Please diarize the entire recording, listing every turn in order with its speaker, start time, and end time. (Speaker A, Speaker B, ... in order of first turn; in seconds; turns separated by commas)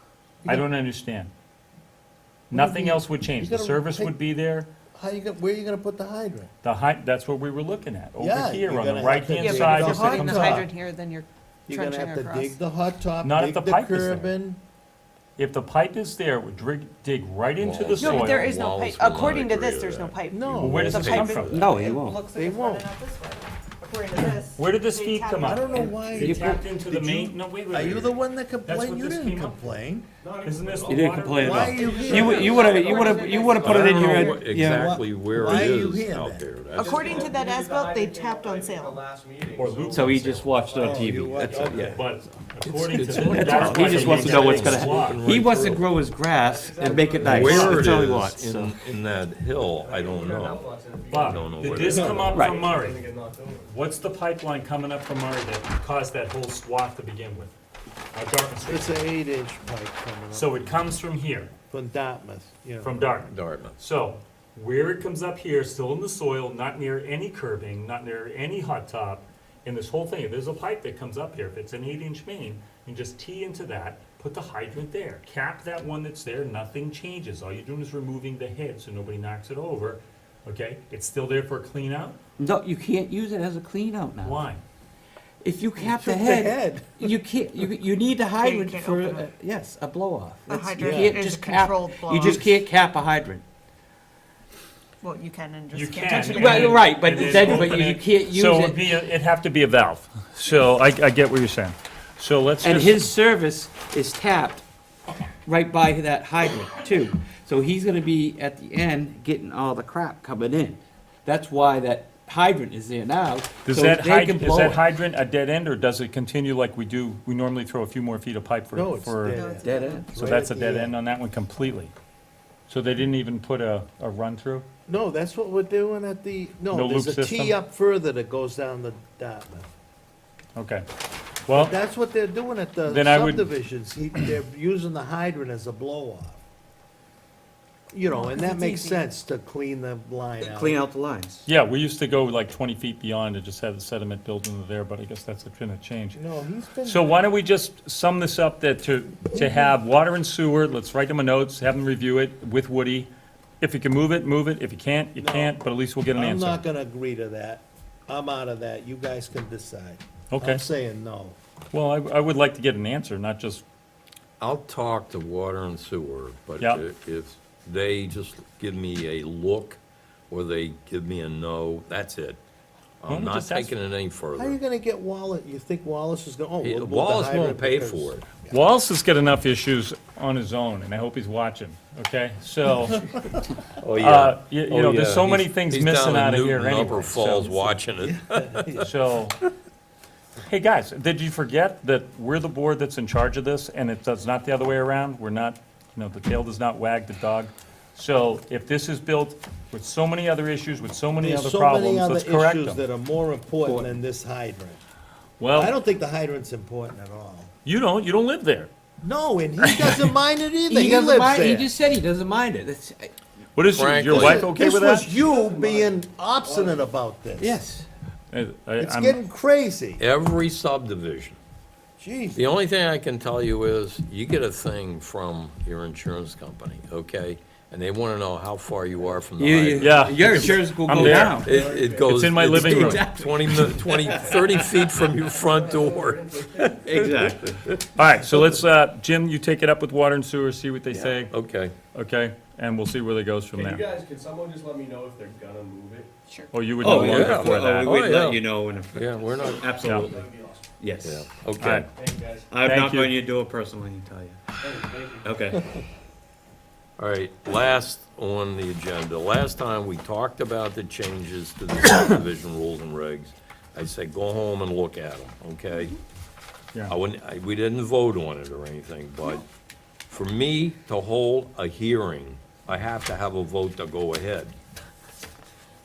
Speaker A: 0.4-0.7, Speaker B: 0.5-1.3, Speaker A: 2.5-4.2, Speaker B: 2.5-4.7, Speaker A: 4.9-6.5, Speaker B: 6.6-10.7, Speaker A: 8.2-10.7, Speaker C: 9.4-12.6, Speaker A: 11.7-14.6, Speaker B: 13.2-14.3, Speaker B: 15.4-18.5, Speaker D: 17.6-21.8, Speaker C: 17.9-26.0, Speaker A: 20.3-21.1, Speaker B: 20.6-21.6, Speaker E: 21.5-22.2, Speaker A: 22.2-22.9, Speaker B: 24.6-29.8, Speaker A: 25.4-30.1, Speaker E: 26.2-26.6, Speaker F: 30.2-34.3, Speaker B: 30.4-31.8, Speaker E: 30.9-35.0, Speaker A: 31.4-32.7, Speaker D: 32.1-32.8, Speaker C: 32.5-33.7, Speaker D: 33.4-37.3, Speaker A: 34.2-36.5, Speaker F: 36.7-41.9, Speaker C: 36.8-39.0, Speaker B: 39.5-40.2, Speaker E: 39.9-42.0, Speaker A: 40.8-42.1, Speaker B: 41.9-45.2, Speaker D: 42.6-45.9, Speaker E: 43.0-48.8, Speaker F: 46.4-48.1, Speaker D: 47.2-50.7, Speaker F: 49.7-53.8, Speaker B: 51.1-53.0, Speaker D: 51.2-52.4, Speaker A: 51.9-52.4, Speaker E: 52.3-52.7, Speaker B: 53.7-57.5, Speaker B: 58.1-59.0, Speaker A: 58.6-60.8, Speaker B: 60.3-61.5, Speaker A: 61.7-63.0, Speaker B: 62.8-82.2, Speaker D: 63.3-63.8, Speaker E: 82.4-84.5, Speaker B: 84.2-84.6, Speaker E: 85.4-93.4, Speaker A: 85.8-87.2, Speaker C: 88.3-89.3, Speaker C: 90.5-92.6, Speaker A: 90.8-91.2, Speaker C: 95.0-97.5, Speaker B: 95.7-103.1, Speaker E: 96.3-98.8, Speaker E: 102.6-104.6, Speaker E: 105.5-114.8, Speaker B: 113.6-119.5, Speaker A: 118.7-120.9, Speaker C: 119.3-120.1, Speaker E: 119.6-120.0, Speaker B: 120.1-121.9, Speaker B: 122.7-124.7, Speaker A: 124.9-129.7, Speaker B: 126.7-127.6, Speaker B: 130.6-130.8, Speaker B: 131.5-131.7, Speaker A: 131.5-136.4, Speaker B: 132.8-133.5, Speaker A: 137.9-140.8, Speaker C: 138.0-139.1, Speaker E: 140.4-141.5, Speaker B: 141.5-146.2, Speaker A: 146.1-147.2, Speaker B: 146.8-153.1, Speaker A: 149.3-149.7, Speaker B: 153.6-156.6, Speaker A: 155.2-155.6, Speaker A: 156.1-161.3, Speaker B: 160.3-160.6, Speaker B: 161.7-163.6, Speaker D: 164.4-169.8, Speaker D: 170.3-172.4, Speaker D: 173.0-174.6, Speaker B: 173.1-173.7, Speaker A: 174.3-178.6, Speaker D: 176.6-178.2, Speaker B: 178.5-183.0, Speaker D: 183.8-188.8, Speaker B: 184.0-187.8, Speaker A: 188.0-188.9, Speaker B: 188.8-189.4, Speaker B: 190.4-202.8, Speaker A: 201.2-204.8, Speaker B: 205.4-205.7, Speaker A: 205.5-207.5, Speaker B: 207.6-208.7, Speaker A: 209.0-211.7, Speaker B: 209.6-210.1, Speaker E: 210.7-213.1, Speaker B: 213.5-215.1, Speaker D: 213.7-214.5, Speaker A: 214.1-217.6, Speaker F: 215.0-216.9, Speaker E: 217.4-217.8, Speaker B: 218.3-219.2, Speaker A: 218.8-220.0, Speaker D: 220.0-221.4, Speaker A: 222.0-222.4, Speaker D: 222.3-230.5, Speaker E: 229.3-231.6, Speaker B: 229.8-231.5, Speaker F: 230.8-232.4, Speaker D: 231.2-237.8, Speaker B: 232.0-233.0, Speaker E: 232.4-235.0, Speaker F: 234.1-234.7, Speaker F: 235.4-237.1, Speaker E: 236.8-237.6, Speaker B: 237.9-241.3, Speaker D: 240.9-241.7, Speaker B: 241.9-243.8, Speaker F: 243.5-246.1, Speaker B: 246.5-247.9, Speaker E: 246.8-250.2, Speaker D: 246.9-250.2, Speaker F: 249.2-250.7, Speaker B: 249.8-250.1, Speaker E: 250.8-251.2, Speaker D: 251.0-251.8, Speaker B: 251.6-251.9, Speaker F: 251.9-252.5, Speaker E: 252.5-254.6, Speaker B: 252.6-253.1, Speaker F: 254.6-255.4, Speaker E: 255.2-255.7, Speaker D: 257.0-266.0, Speaker D: 266.9-269.4, Speaker D: 270.1-274.5